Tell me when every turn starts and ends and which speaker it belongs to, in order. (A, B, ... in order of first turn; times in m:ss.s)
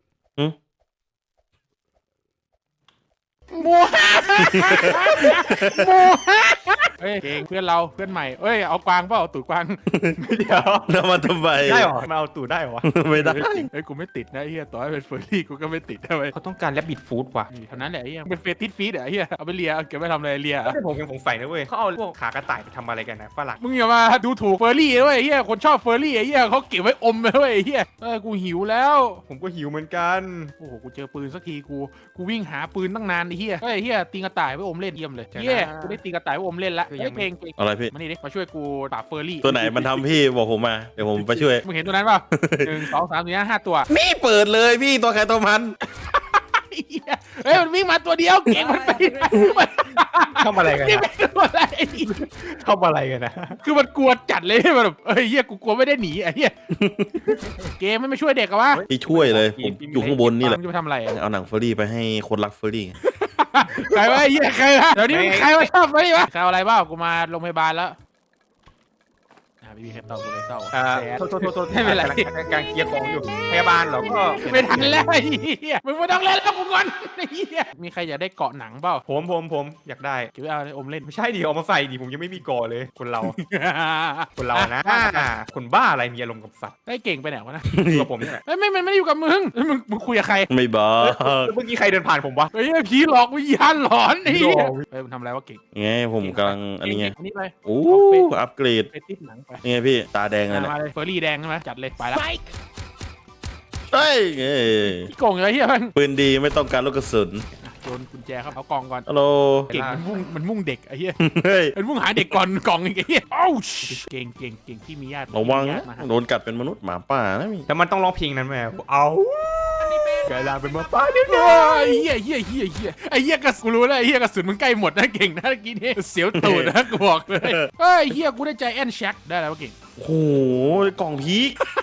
0:03.5-0:09.8 A
0:04.4-0:06.1 B
0:04.8-0:05.4 C
0:09.9-0:10.2 B
0:10.2-0:10.9 C
0:10.9-0:11.9 B
0:11.6-0:12.9 C
0:12.8-0:13.7 B
0:13.2-0:16.3 A
0:16.3-0:17.5 C
0:17.5-0:20.8 A
0:20.6-0:23.6 C
0:23.6-0:29.2 A
0:29.3-0:30.5 C
0:30.6-0:40.2 A
0:35.3-0:36.0 C
0:36.9-0:37.3 C
0:37.6-0:37.9 B
0:39.4-0:41.6 B
0:41.2-0:43.9 A
0:42.3-0:42.9 B
0:43.9-0:45.8 B
0:46.0-0:52.2 A
0:48.5-0:49.6 B
0:50.4-0:51.1 C
0:52.1-0:53.6 C
0:53.6-0:56.5 A
0:56.7-0:57.2 B
0:57.8-0:58.9 A
0:58.7-1:00.4 C
0:58.9-1:00.6 B
1:00.4-1:01.2 A
1:01.1-1:03.0 B
1:03.0-1:08.0 A
1:03.9-1:04.2 C
1:05.0-1:05.7 C
1:09.6-1:12.3 A
1:10.7-1:15.0 C
1:14.4-1:19.0 A
1:19.1-1:20.3 C
1:20.4-1:21.1 A
1:21.0-1:23.4 C
1:23.2-1:25.3 A
1:24.4-1:26.8 C
1:26.9-1:27.7 A
1:27.7-1:28.1 B
1:27.9-1:28.4 C
1:28.5-1:30.5 A
1:30.5-1:31.5 B
1:31.0-1:32.5 C
1:32.5-1:35.6 A
1:34.3-1:34.9 C
1:35.7-1:37.2 B
1:36.2-1:38.3 A
1:37.7-1:38.9 B
1:38.9-1:39.6 A
1:39.6-1:40.8 B
1:40.5-1:42.2 A
1:43.9-1:45.1 B
1:44.8-1:46.0 A
1:46.0-1:47.5 B
1:47.6-1:49.1 A
1:49.1-1:49.7 B
1:49.7-1:50.1 C
1:49.7-1:51.2 A
1:51.2-1:52.3 B
1:51.8-1:56.1 A
1:55.3-1:57.7 B
1:57.7-2:02.1 C
1:59.8-2:09.8 A
2:06.4-2:07.7 B
2:10.0-2:11.6 B